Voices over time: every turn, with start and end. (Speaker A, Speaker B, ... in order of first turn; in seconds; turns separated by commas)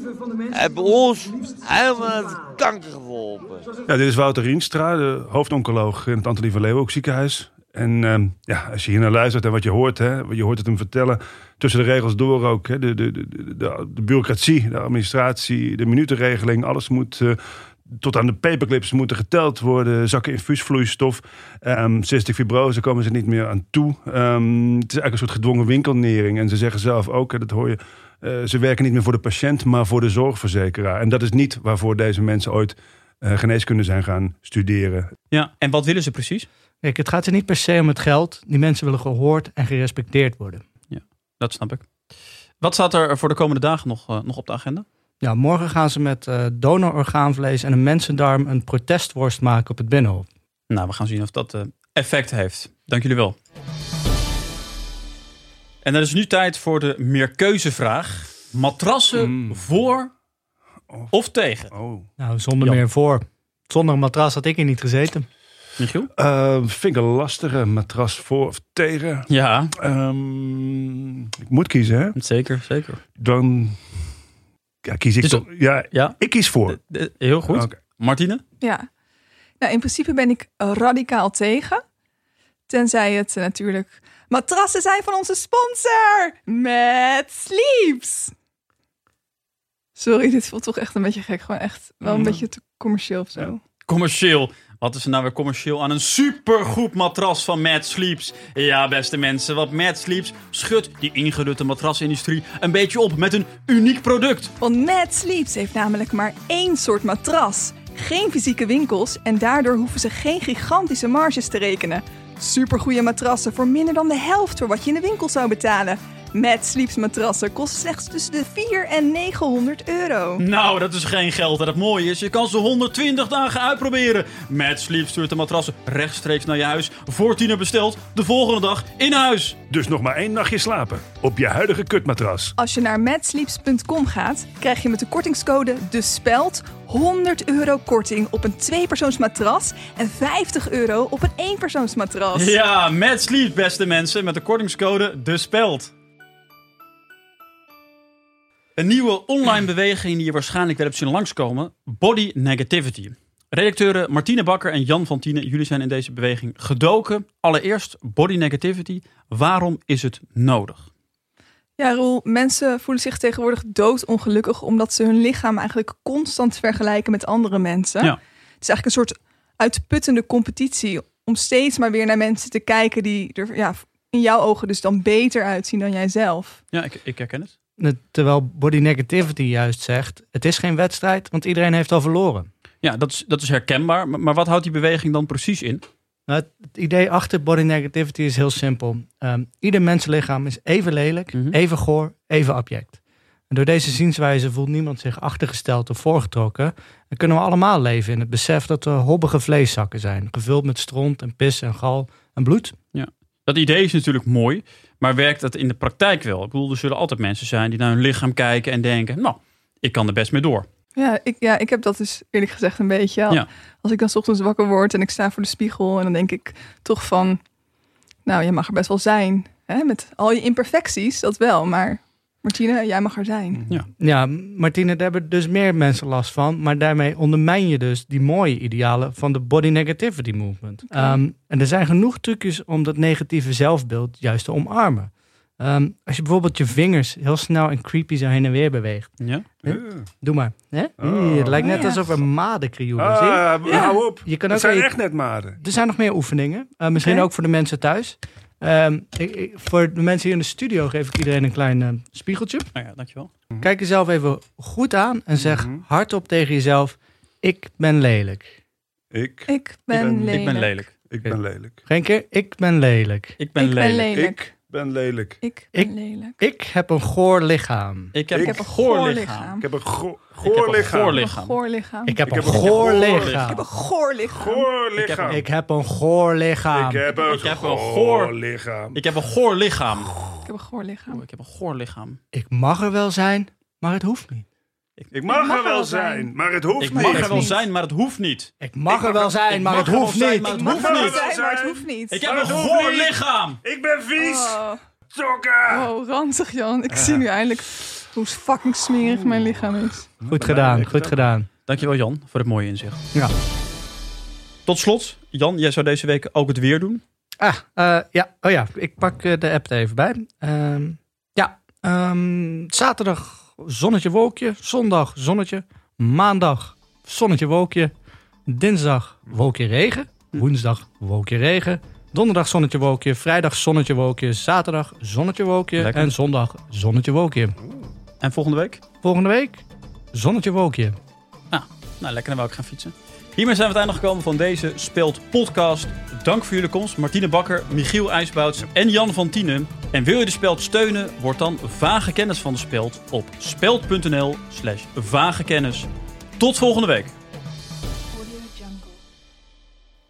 Speaker A: 0.5-3.6, Speaker B: 3.9-35.1, Speaker C: 35.3-36.5, Speaker D: 36.8-40.6, Speaker C: 40.9-41.9, Speaker C: 42.6-44.9, Speaker D: 45.2-50.3, Speaker C: 50.7-53.4, Speaker C: 55.8-60.1, Speaker B: 59.1-59.6, Speaker C: 61.1-61.7, Speaker B: 61.7-62.1, Speaker D: 62.2-65.3, Speaker C: 65.8-66.1, Speaker B: 66.2-69.3, Speaker C: 69.3-69.7, Speaker B: 69.8-72.2, Speaker C: 72.2-73.0, Speaker B: 73.2-73.8, Speaker B: 74.8-76.8, Speaker C: 75.2-78.4, Speaker B: 77.5-77.8, Speaker E: 78.6-78.8, Speaker E: 79.6-81.8, Speaker E: 82.7-88.3, Speaker E: 90.0-93.5, Speaker B: 92.0-92.4, Speaker C: 93.9-104.5, Speaker E: 104.6-120.4, Speaker C: 120.4-129.6, Speaker B: 129.7-132.6, Speaker E: 132.6-142.6, Speaker C: 142.3-145.9, Speaker C: 148.8-160.9, Speaker E: 161.8-176.6, Speaker C: 176.7-177.5, Speaker D: 177.8-182.5, Speaker C: 182.8-185.8, Speaker D: 186.3-202.7, Speaker C: 202.9-210.7, Speaker E: 210.9-217.4, Speaker E: 218.3-223.6, Speaker D: 224.0-239.1, Speaker E: 230.9-231.2, Speaker C: 239.2-239.5, Speaker D: 239.6-245.0, Speaker B: 239.7-240.1, Speaker B: 241.0-241.8, Speaker E: 241.6-242.1, Speaker B: 243.0-245.6, Speaker D: 245.6-252.7, Speaker E: 247.0-247.3, Speaker C: 252.7-253.3, Speaker D: 253.6-258.5, Speaker B: 255.4-255.8, Speaker B: 259.1-261.8, Speaker E: 259.5-260.9, Speaker C: 260.3-261.4, Speaker D: 261.9-263.4, Speaker C: 263.4-264.1, Speaker E: 263.6-264.5, Speaker B: 264.1-265.4, Speaker E: 265.4-266.4, Speaker D: 265.7-268.1, Speaker C: 268.1-269.5, Speaker B: 268.3-268.7, Speaker E: 268.4-269.7, Speaker B: 269.6-271.3, Speaker C: 270.4-271.6, Speaker E: 271.1-272.3, Speaker D: 272.1-273.7, Speaker B: 272.2-273.5, Speaker E: 273.3-274.7, Speaker B: 274.2-275.4, Speaker C: 275.0-275.4, Speaker D: 275.2-277.0, Speaker B: 276.7-279.0, Speaker C: 277.1-278.3, Speaker C: 278.9-280.1, Speaker E: 280.4-281.2, Speaker C: 281.1-282.2, Speaker D: 282.3-284.5, Speaker B: 285.1-287.5, Speaker E: 285.3-286.3, Speaker C: 286.8-288.5, Speaker E: 286.9-287.7, Speaker D: 288.6-290.7, Speaker B: 288.9-289.3, Speaker C: 289.3-291.2, Speaker E: 290.4-292.3, Speaker B: 290.6-295.9, Speaker C: 292.1-293.6, Speaker E: 294.2-294.8, Speaker E: 295.7-300.1, Speaker B: 296.9-297.2, Speaker B: 299.0-299.7, Speaker B: 300.2-301.3, Speaker D: 300.3-301.5, Speaker C: 301.7-303.0, Speaker C: 304.7-307.0, Speaker D: 307.4-317.9, Speaker D: 318.5-327.6, Speaker C: 325.8-326.1, Speaker C: 328.2-328.8, Speaker D: 329.0-330.9, Speaker C: 331.5-347.1, Speaker E: 348.1-348.9